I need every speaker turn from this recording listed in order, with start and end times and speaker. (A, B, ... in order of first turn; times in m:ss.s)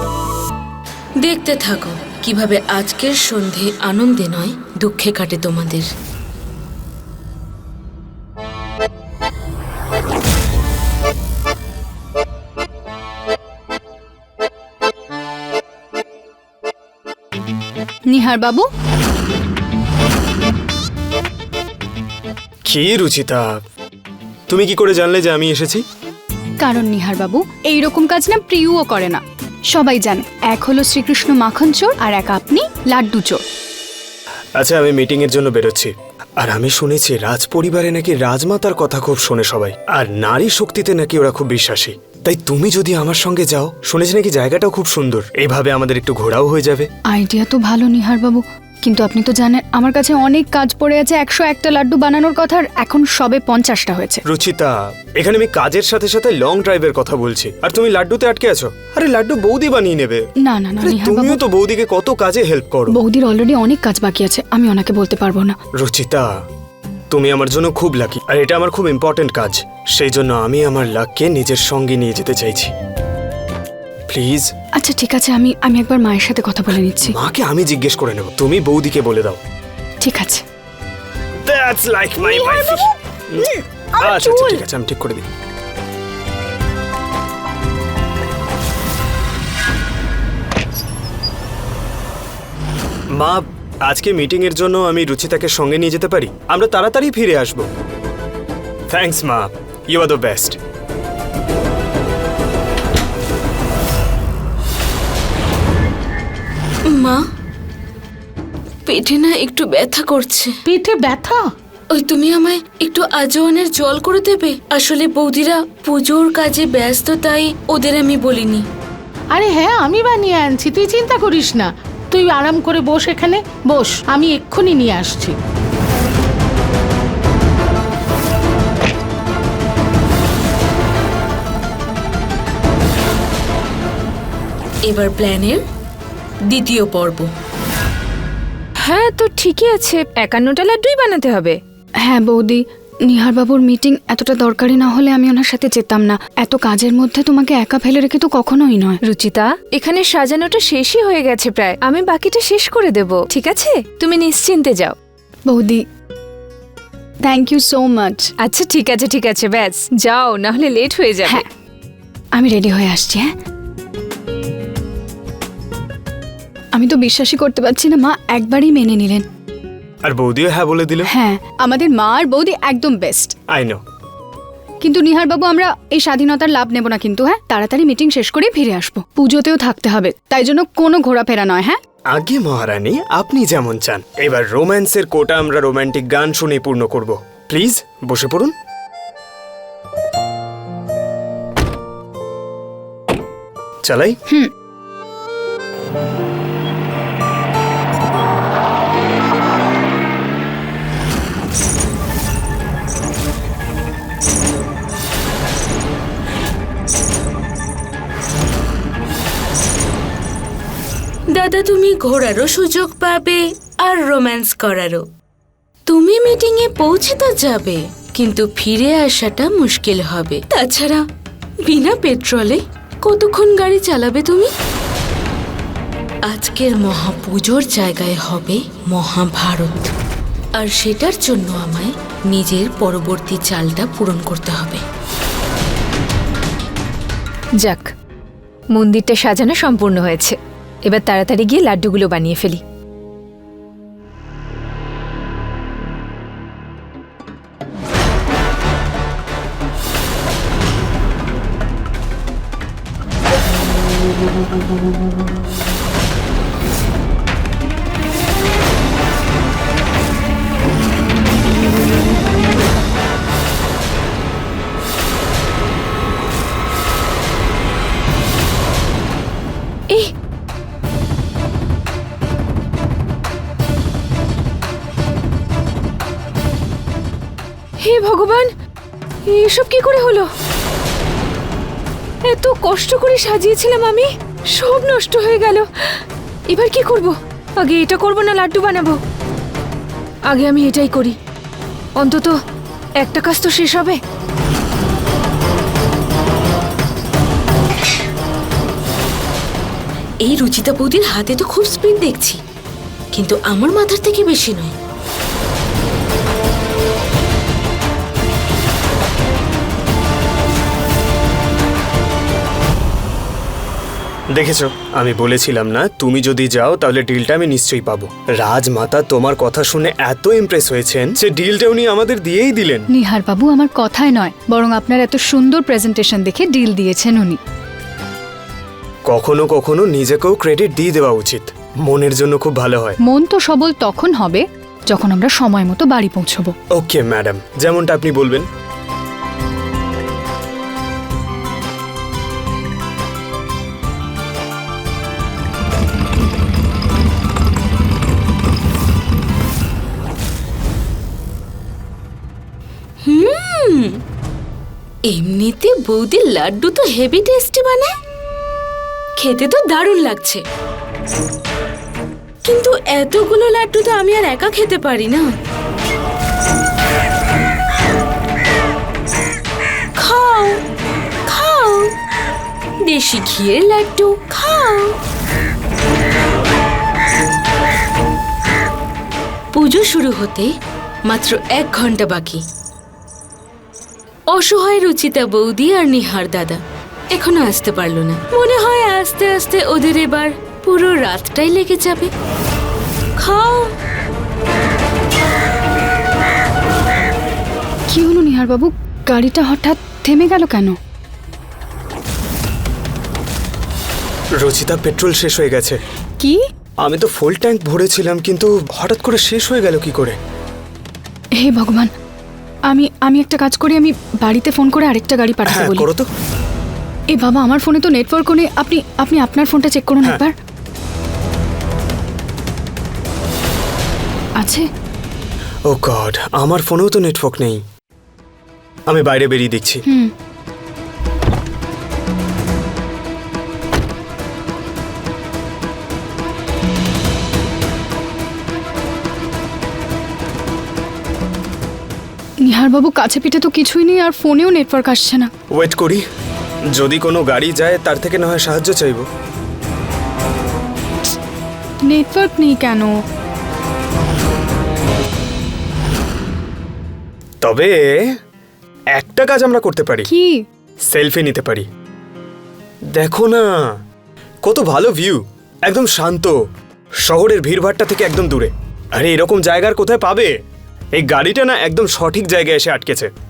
0:01.2-0:05.9 A
0:18.1-0:18.7 B
0:22.6-0:23.6 C
0:24.5-0:25.8 C
0:26.6-0:33.4 B
0:34.6-0:46.9 C
0:47.1-0:54.2 B
0:54.2-1:00.2 C
1:00.4-1:01.4 B
1:00.8-1:03.0 C
1:02.9-1:05.6 B
1:05.8-1:06.3 C
1:07.1-1:12.7 C
1:14.1-1:14.5 C
1:14.8-1:17.1 B
1:17.0-1:19.4 C
1:20.0-1:20.4 B
1:21.4-1:25.2 C
1:33.1-1:37.7 C
1:38.9-1:40.6 C
1:46.9-1:47.2 A
1:48.9-1:50.6 A
1:50.7-1:51.4 D
1:51.9-1:58.6 A
1:59.3-2:05.4 D
2:14.9-2:15.6 A
2:16.5-2:17.3 A
2:18.8-2:21.6 E
2:22.0-2:29.0 B
2:29.0-2:35.0 E
2:35.5-2:35.8 B
2:37.2-2:38.3 B
2:38.4-2:41.4 E
2:42.4-2:43.3 B
2:46.8-2:49.2 B
2:50.0-2:51.1 C
2:51.1-2:53.4 B
2:53.5-2:53.8 C
2:54.8-3:01.8 B
3:02.1-3:08.5 C
3:13.9-3:14.2 C
3:31.3-3:35.0 A
3:35.9-3:41.0 A
3:41.6-3:44.5 A
3:46.3-3:49.9 A
3:50.6-3:54.8 A
3:57.6-3:57.9 E
3:58.7-4:00.4 E
4:00.9-4:02.6 E
4:37.8-4:38.5 E
4:39.3-4:40.3 E
4:42.2-4:45.6 E
4:46.5-4:49.0 E
4:50.3-4:51.2 E
4:52.0-4:52.4 E
4:53.0-4:54.0 E
5:00.2-5:02.4 A
5:03.1-5:04.7 A
5:14.3-5:22.9 C
5:22.9-5:27.4 B
5:29.1-5:33.0 C
5:33.0-5:36.5 B
5:36.7-5:38.5 C
5:53.0-5:54.0 A
5:55.1-5:57.9 A
5:59.2-6:00.4 A
6:02.5-6:05.3 A
6:10.0-6:10.6 A
6:11.3-6:11.9 A
6:12.9-6:15.0 A
6:19.5-6:20.5 A
6:21.1-6:22.4 A
6:24.3-6:26.6 A
6:27.1-6:32.1 A
6:33.2-6:33.7 A
6:37.9-6:40.8 B
6:44.4-6:45.8 C
6:46.8-6:50.2 C
6:51.4-6:51.9 B
6:52.7-6:55.9 B
6:55.5-6:56.1 C
6:57.1-7:00.3 B
7:04.4-7:04.6 B
7:05.7-7:07.6 C
7:08.9-7:09.8 C
7:22.4-7:25.3 B
7:25.5-7:26.0 C
7:26.7-7:29.0 C
7:31.9-7:32.9 B
7:37.4-7:38.1 C
7:38.9-7:40.1 C
7:40.1-7:40.4 B
7:40.9-7:41.7 C
7:42.9-7:43.8 C
7:44.4-7:46.4 C
7:47.0-7:50.4 C
7:51.0-7:53.1 C